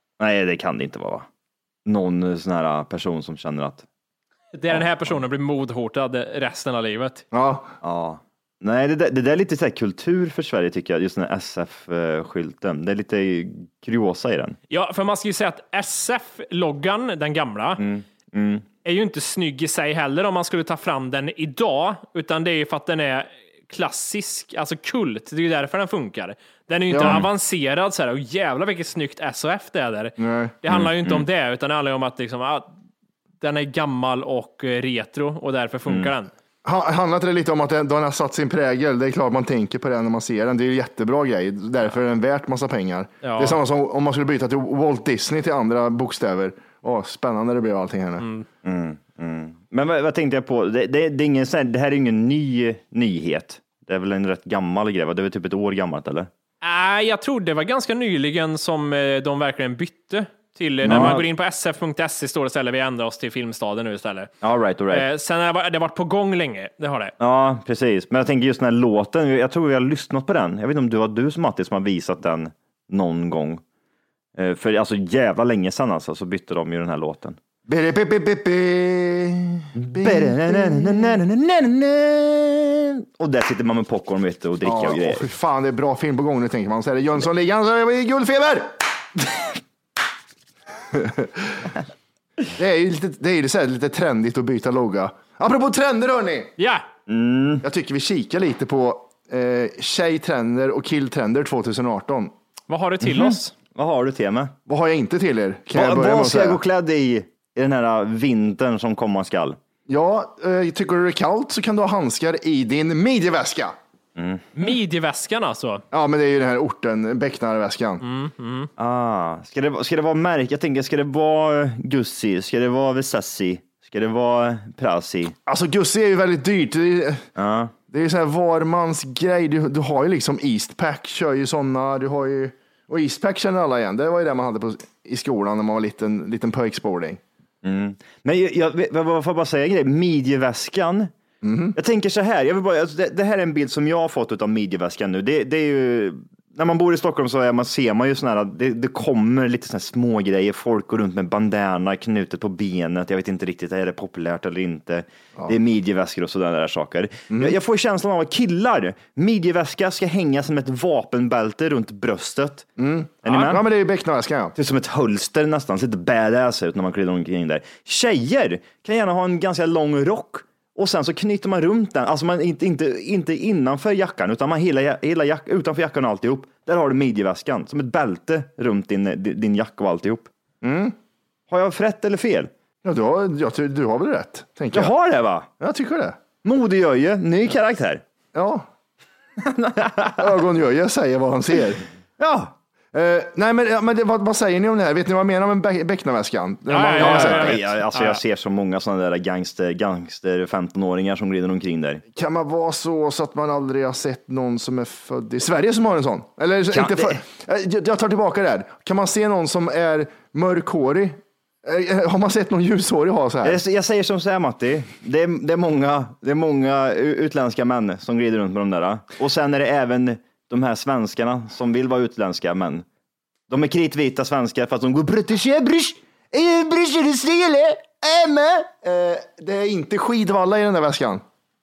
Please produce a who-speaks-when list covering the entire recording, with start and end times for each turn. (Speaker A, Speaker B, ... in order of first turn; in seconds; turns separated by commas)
Speaker A: 0.2-1.3, Speaker A: 1.9-3.9, Speaker B: 4.6-7.2, Speaker C: 7.3-7.7, Speaker A: 7.8-14.6, Speaker B: 14.7-17.8, Speaker A: 17.8-18.6, Speaker B: 18.9-32.7, Speaker C: 26.9-27.2, Speaker C: 30.2-30.6, Speaker A: 30.7-31.3, Speaker B: 33.4-36.3, Speaker C: 36.6-48.2, Speaker B: 43.2-43.6, Speaker B: 48.2-48.5, Speaker A: 48.6-56.3, Speaker B: 56.6-64.3, Speaker A: 60.8-61.3, Speaker A: 64.4-65.1, Speaker B: 64.9-67.2, Speaker A: 67.2-73.6, Speaker A: 74.4-77.4, Speaker C: 77.7-81.2, Speaker A: 79.8-85.2, Speaker C: 84.6-88.8, Speaker C: 90.9-91.7, Speaker C: 92.6-96.5, Speaker B: 96.6-96.9, Speaker A: 97.1-97.7, Speaker C: 97.6-102.3, Speaker B: 102.7-103.5, Speaker A: 103.0-104.5, Speaker C: 104.7-106.6, Speaker A: 105.7-109.6, Speaker C: 109.9-113.8, Speaker A: 114.2-114.5, Speaker B: 114.6-115.8, Speaker C: 115.9-118.0, Speaker B: 118.0-118.7, Speaker A: 118.8-125.3, Speaker C: 125.5-127.3, Speaker A: 127.4-127.7, Speaker C: 127.9-137.2, Speaker A: 137.6-141.1, Speaker C: 141.4-141.8, Speaker A: 141.8-162.7, Speaker C: 162.8-164.5, Speaker A: 163.2-163.6, Speaker A: 164.6-180.3, Speaker C: 180.6-180.9, Speaker A: 181.5-182.5, Speaker C: 182.8-184.9, Speaker A: 184.7-185.5, Speaker C: 185.6-186.2, Speaker A: 186.4-188.0, Speaker C: 188.3-188.7, Speaker A: 189.4-190.2, Speaker C: 190.2-191.8, Speaker A: 192.2-192.5, Speaker C: 192.9-197.6, Speaker B: 196.7-198.2, Speaker A: 196.9-202.0, Speaker C: 202.1-213.6, Speaker A: 206.7-207.2, Speaker A: 213.4-222.8, Speaker A: 223.5-228.7, Speaker C: 228.8-231.2